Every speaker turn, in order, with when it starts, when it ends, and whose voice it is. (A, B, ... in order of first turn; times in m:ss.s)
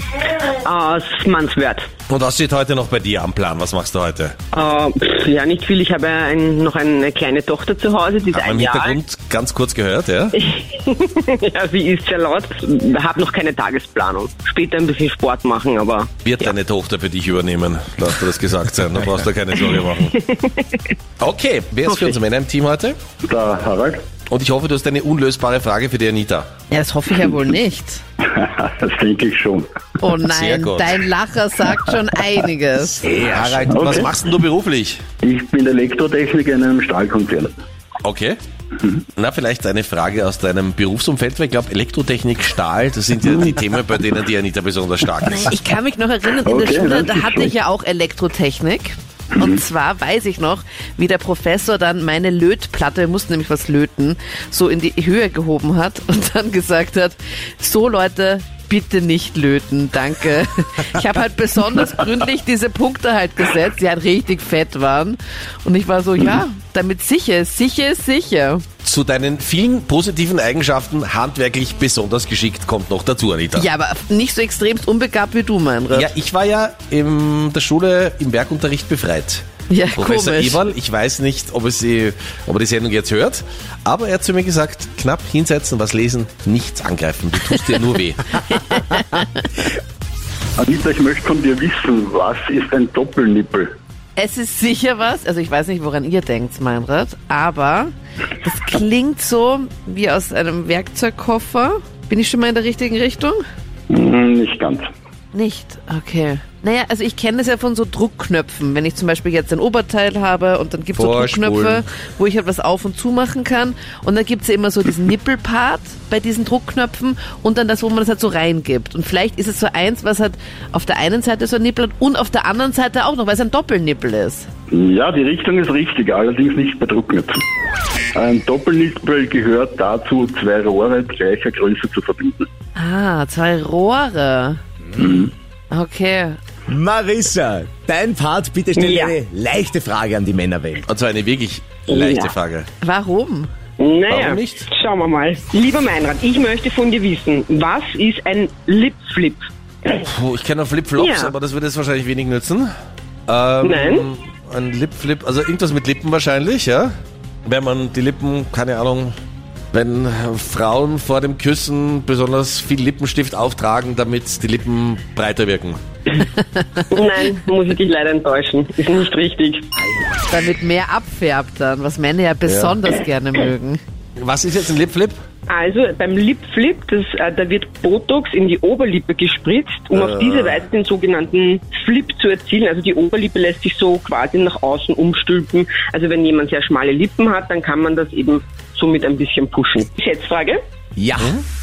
0:00.3-0:01.9 A
0:02.1-0:04.4 B
0:04.5-0:09.0 A
0:08.3-0:10.4 B
0:10.4-0:16.5 A
0:16.2-0:20.1 B
0:19.7-0:20.9 A
0:21.2-0:23.0 B
0:21.9-0:22.2 A
0:23.2-0:24.0 C
0:24.3-0:26.5 B
0:26.7-0:28.0 D
0:28.2-0:29.7 C
0:30.0-0:33.1 D
0:30.3-0:31.0 B
0:33.0-0:33.6 E
0:33.2-0:35.0 B
0:33.7-0:34.1 C
0:35.2-0:37.5 C
0:38.0-0:38.4 B
0:39.2-0:45.5 B
0:45.3-1:08.6 D
0:46.4-0:47.5 C
1:08.8-1:13.7 B
1:13.5-1:16.1 D
1:15.9-1:19.4 B
1:19.7-1:20.6 D
1:20.0-1:28.4 B
1:28.5-1:29.4 D
1:30.6-1:33.7 C
1:34.2-1:43.4 D
1:43.9-1:44.9 C
1:45.3-2:04.5 D
1:50.9-1:51.8 B
2:04.7-2:07.4 C
2:08.1-2:12.5 C
2:12.8-2:14.6 D
2:14.9-2:15.2 E
2:15.0-2:15.3 C
2:15.7-2:16.4 D
2:16.7-2:20.8 E
2:18.8-2:19.2 A
2:20.8-2:22.7 B
2:21.9-2:22.3 A
2:22.8-2:23.5 D
2:23.8-2:29.4 A
2:24.1-2:24.7 B
2:29.8-2:32.7 B
2:31.0-2:31.3 A
2:33.3-2:36.9 B
2:33.6-2:34.1 A
2:37.4-2:39.1 B
2:39.7-2:45.8 B
2:46.9-2:49.6 A
2:50.2-2:53.8 D
2:52.4-2:52.8 B
2:54.2-2:55.2 B
2:55.5-3:10.6 A
2:59.9-3:00.6 B
3:11.0-3:11.4 E